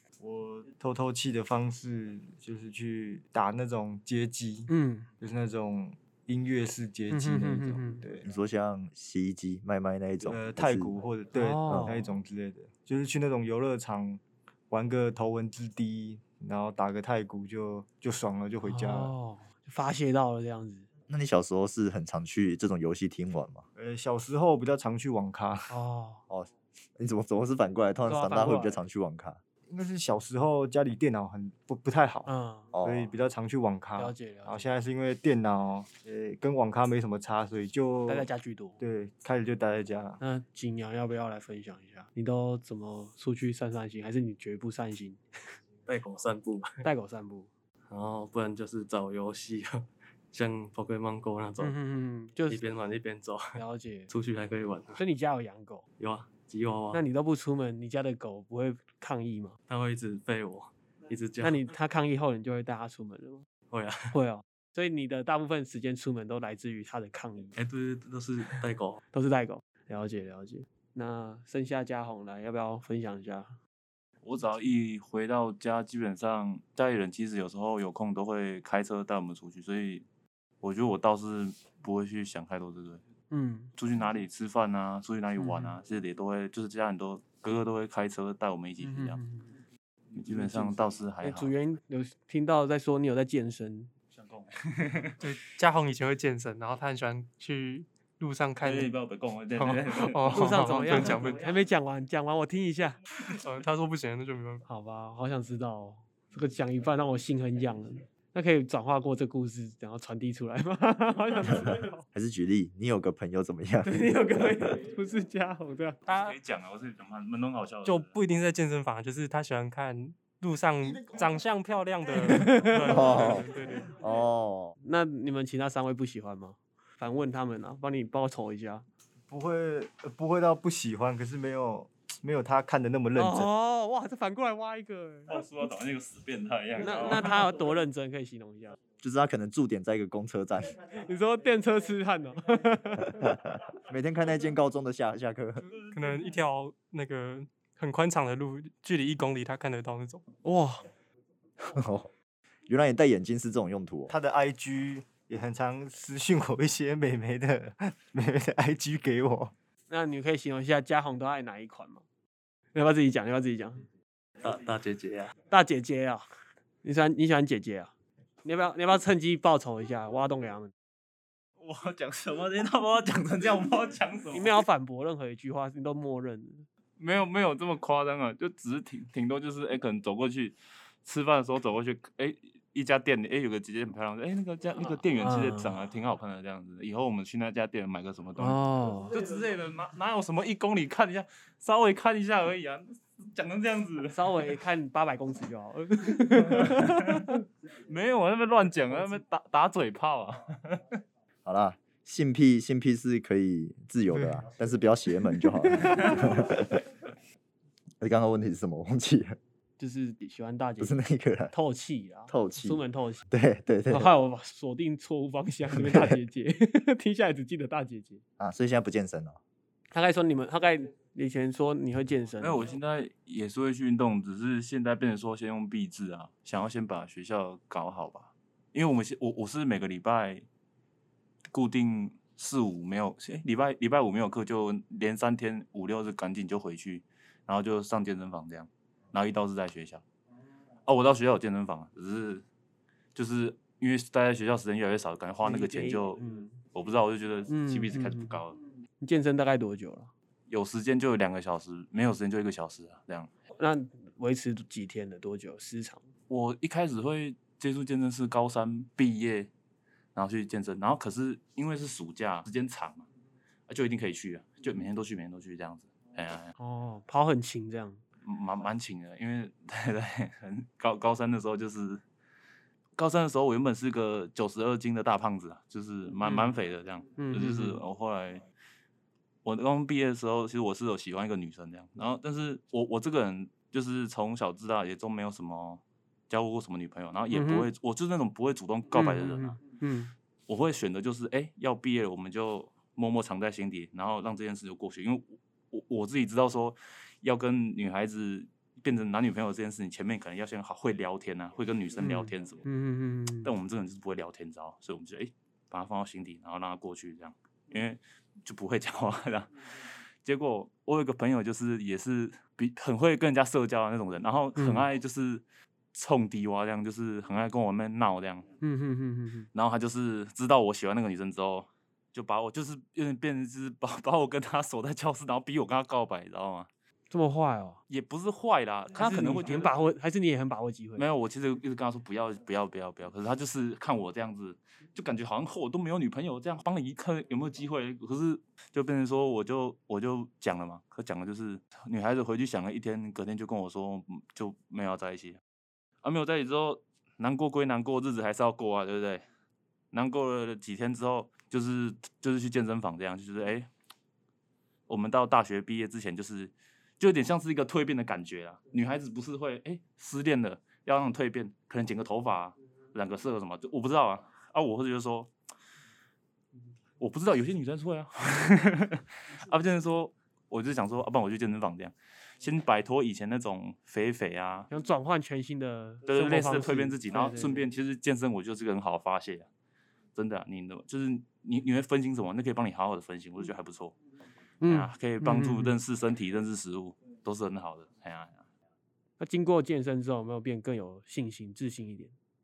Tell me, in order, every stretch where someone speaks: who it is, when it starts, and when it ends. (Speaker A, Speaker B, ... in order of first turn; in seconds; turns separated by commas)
Speaker A: 0.2-4.7, Speaker B: 4.7-5.1, Speaker A: 5.2-8.3, Speaker B: 7.1-8.0, Speaker C: 8.2-10.9, Speaker A: 10.2-19.1, Speaker B: 11.3-12.1, Speaker C: 11.7-11.9, Speaker B: 18.6-20.9, Speaker C: 21.1-23.6, Speaker A: 23.8-25.7, Speaker B: 25.7-26.2, Speaker C: 26.3-29.4, Speaker B: 28.1-28.8, Speaker A: 29.7-32.3, Speaker B: 32.3-32.7, Speaker C: 32.7-33.1, Speaker A: 32.8-38.3, Speaker B: 34.0-34.7, Speaker B: 38.1-38.8, Speaker A: 38.8-40.2, Speaker B: 40.2-45.2, Speaker D: 45.9-46.8, Speaker B: 46.8-47.5, Speaker D: 47.9-51.8, Speaker B: 51.6-52.7, Speaker D: 52.5-55.0, Speaker B: 53.5-54.1, Speaker B: 55.0-55.8, Speaker D: 56.0-57.0, Speaker B: 56.9-59.6, Speaker D: 59.7-61.6, Speaker B: 61.4-63.5, Speaker D: 63.7-64.2, Speaker B: 64.1-67.5, Speaker D: 67.5-69.0, Speaker B: 69.1-73.6, Speaker E: 74.2-80.0, Speaker E: 80.6-83.0, Speaker B: 83.3-83.7, Speaker E: 83.8-89.2, Speaker B: 85.4-85.7, Speaker B: 88.8-89.5, Speaker E: 90.1-91.5, Speaker B: 90.3-93.9, Speaker E: 94.1-95.2, Speaker F: 95.2-98.9, Speaker E: 98.6-101.3, Speaker F: 99.6-101.4, Speaker B: 100.3-103.0, Speaker F: 103.2-104.6, Speaker B: 104.7-112.0, Speaker C: 111.5-114.5, Speaker B: 113.8-116.0, Speaker F: 116.1-116.3, Speaker E: 116.1-118.1, Speaker F: 117.8-123.9, Speaker B: 122.2-123.3, Speaker C: 122.9-124.8, Speaker B: 124.8-128.9, Speaker A: 129.3-133.5, Speaker B: 133.2-135.4, Speaker E: 135.3-137.4, Speaker B: 136.8-138.8, Speaker C: 139.0-140.8, Speaker B: 140.9-143.4, Speaker C: 143.2-145.7, Speaker F: 145.9-150.2, Speaker B: 150.4-150.9, Speaker C: 151.6-152.1, Speaker C: 152.7-154.1, Speaker A: 154.1-159.5, Speaker B: 159.9-162.0, Speaker B: 162.7-163.8, Speaker D: 164.4-165.3, Speaker B: 165.5-166.3, Speaker B: 166.8-167.9, Speaker B: 168.4-170.7, Speaker E: 171.6-174.6, Speaker B: 174.3-176.7, Speaker E: 177.0-194.5, Speaker B: 185.2-185.7, Speaker B: 188.4-189.1, Speaker B: 194.1-197.4, Speaker E: 196.4-201.0, Speaker C: 201.4-206.9, Speaker B: 205.7-206.2, Speaker C: 208.0-209.4, Speaker B: 209.8-213.2, Speaker C: 210.8-211.5, Speaker C: 212.3-214.1, Speaker B: 213.9-218.2, Speaker C: 215.7-216.2, Speaker C: 218.4-219.4, Speaker B: 219.9-222.7, Speaker E: 222.4-230.4, Speaker E: 231.5-240.0, Speaker E: 240.9-242.4, Speaker E: 243.2-246.2, Speaker B: 245.4-246.6, Speaker E: 246.7-248.6, Speaker B: 247.5-248.4, Speaker B: 249.0-250.1, Speaker E: 250.5-253.3, Speaker B: 253.6-256.1, Speaker E: 256.3-259.5, Speaker E: 260.1-263.1, Speaker E: 263.7-266.5, Speaker B: 266.6-268.0, Speaker E: 268.2-272.0, Speaker E: 273.0-278.4, Speaker B: 276.2-276.5, Speaker B: 277.2-277.8, Speaker E: 279.4-289.6, Speaker B: 287.3-287.7, Speaker B: 288.9-290.1, Speaker E: 290.5-302.6, Speaker B: 302.0-303.5, Speaker E: 303.4-309.7, Speaker E: 310.2-318.5, Speaker B: 314.6-314.9, Speaker B: 318.6-319.5, Speaker E: 319.5-326.7, Speaker B: 327.1-327.8, Speaker E: 327.9-329.8, Speaker B: 329.0-331.1, Speaker E: 331.0-345.4, Speaker E: 346.0-349.2, Speaker E: 349.9-353.7, Speaker E: 354.9-365.3, Speaker E: 367.0-374.7, Speaker B: 374.7-377.6, Speaker E: 376.1-379.5, Speaker E: 380.1-384.0, Speaker B: 384.6-385.8, Speaker E: 384.7-388.5, Speaker B: 389.2-392.1